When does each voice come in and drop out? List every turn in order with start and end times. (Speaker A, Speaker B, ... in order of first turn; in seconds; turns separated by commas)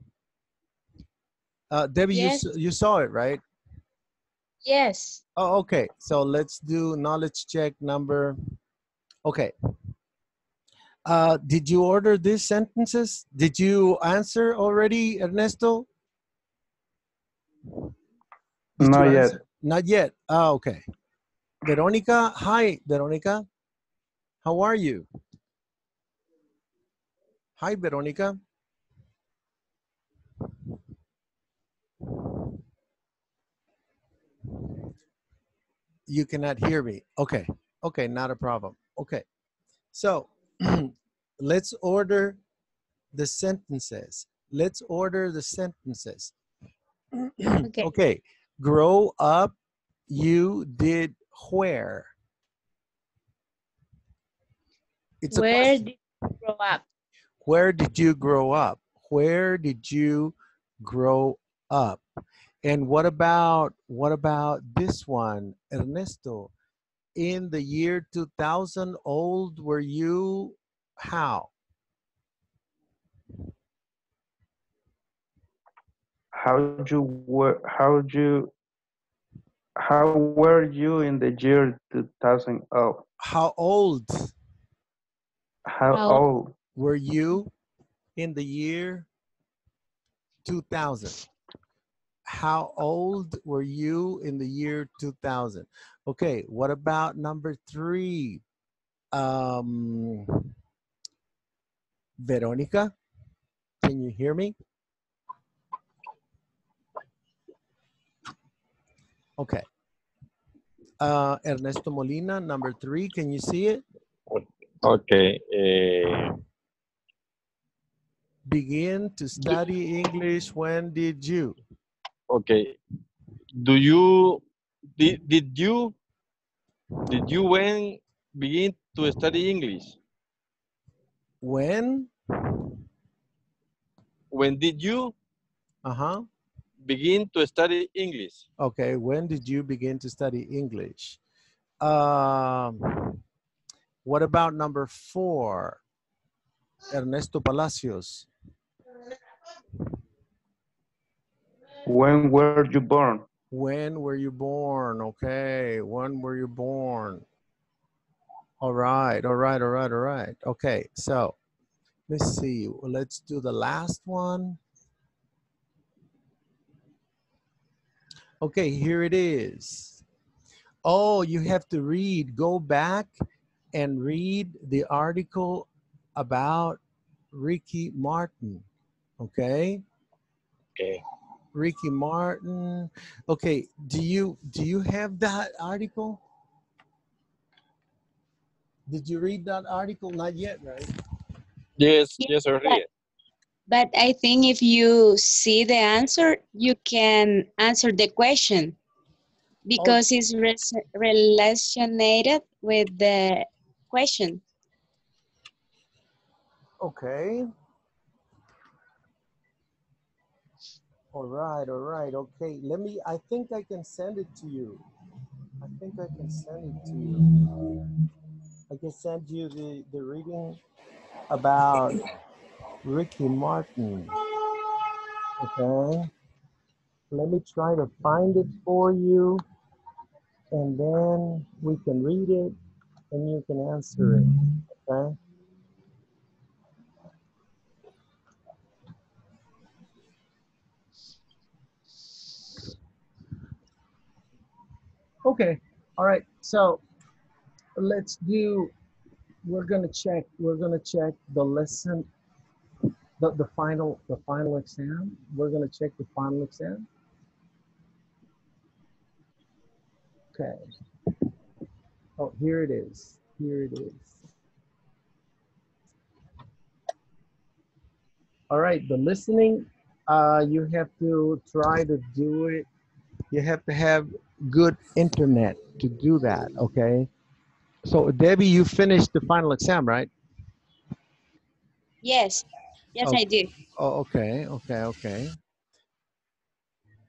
Speaker A: 1.7-3.4, Speaker B: 2.1-2.5, Speaker B: 4.6-5.2, Speaker A: 5.4-8.4, Speaker A: 9.2-9.5, Speaker A: 11.1-15.9, Speaker A: 18.8-20.8, Speaker C: 18.8-19.4, Speaker A: 21.6-23.4, Speaker A: 24.4-25.1, Speaker A: 27.6-28.4, Speaker A: 36.1-39.2, Speaker A: 39.9-42.4, Speaker A: 43.1-46.3, Speaker A: 47.1-49.5, Speaker B: 47.6-47.9, Speaker A: 50.1-52.1, Speaker A: 55.2-55.8, Speaker B: 55.3-56.8, Speaker A: 57.4-62.0, Speaker A: 62.6-66.5, Speaker A: 67.2-71.5, Speaker C: 76.3-78.5, Speaker C: 79.8-83.0, Speaker A: 83.2-84.3, Speaker C: 85.7-86.5, Speaker B: 85.9-86.2, Speaker A: 86.8-87.5, Speaker A: 88.2-89.1, Speaker A: 90.4-91.2, Speaker A: 92.3-98.4, Speaker A: 99.1-100.5, Speaker A: 102.2-102.9, Speaker A: 103.8-104.5, Speaker A: 109.4-109.6, Speaker A: 111.0-113.8, Speaker D: 114.3-116.3, Speaker A: 118.5-121.5, Speaker D: 122.3-122.8, Speaker D: 123.5-124.4, Speaker D: 125.0-125.9, Speaker D: 127.1-129.9, Speaker A: 131.4-132.1, Speaker D: 134.3-135.1, Speaker A: 135.8-136.2, Speaker D: 136.8-138.4, Speaker A: 138.6-141.2, Speaker A: 141.8-143.2, Speaker A: 144.0-145.8, Speaker A: 146.9-148.3, Speaker C: 151.8-153.2, Speaker A: 153.5-157.2, Speaker A: 158.6-161.3, Speaker A: 162.1-164.6, Speaker A: 168.4-170.0, Speaker A: 170.8-173.1, Speaker A: 173.7-176.8, Speaker A: 177.3-178.6, Speaker A: 179.2-179.8, Speaker D: 180.8-181.0, Speaker A: 181.5-186.2, Speaker A: 188.9-190.9, Speaker D: 191.8-192.9, Speaker B: 192.2-192.8, Speaker B: 193.7-198.8, Speaker B: 199.7-204.4, Speaker A: 206.8-207.5, Speaker A: 211.1-214.8, Speaker A: 215.6-217.6, Speaker A: 218.7-220.6, Speaker A: 221.3-222.0, Speaker A: 222.8-224.1, Speaker A: 225.4-226.1, Speaker A: 227.1-229.4, Speaker A: 230.5-232.6, Speaker A: 233.1-235.2, Speaker A: 245.2-246.8, Speaker A: 247.8-248.7, Speaker A: 249.4-252.1, Speaker A: 253.2-256.9, Speaker A: 260.3-260.6, Speaker A: 262.2-264.1, Speaker A: 268.5-272.7, Speaker A: 273.3-277.1, Speaker A: 277.9-280.1, Speaker B: 282.0-283.5, Speaker A: 283.8-285.3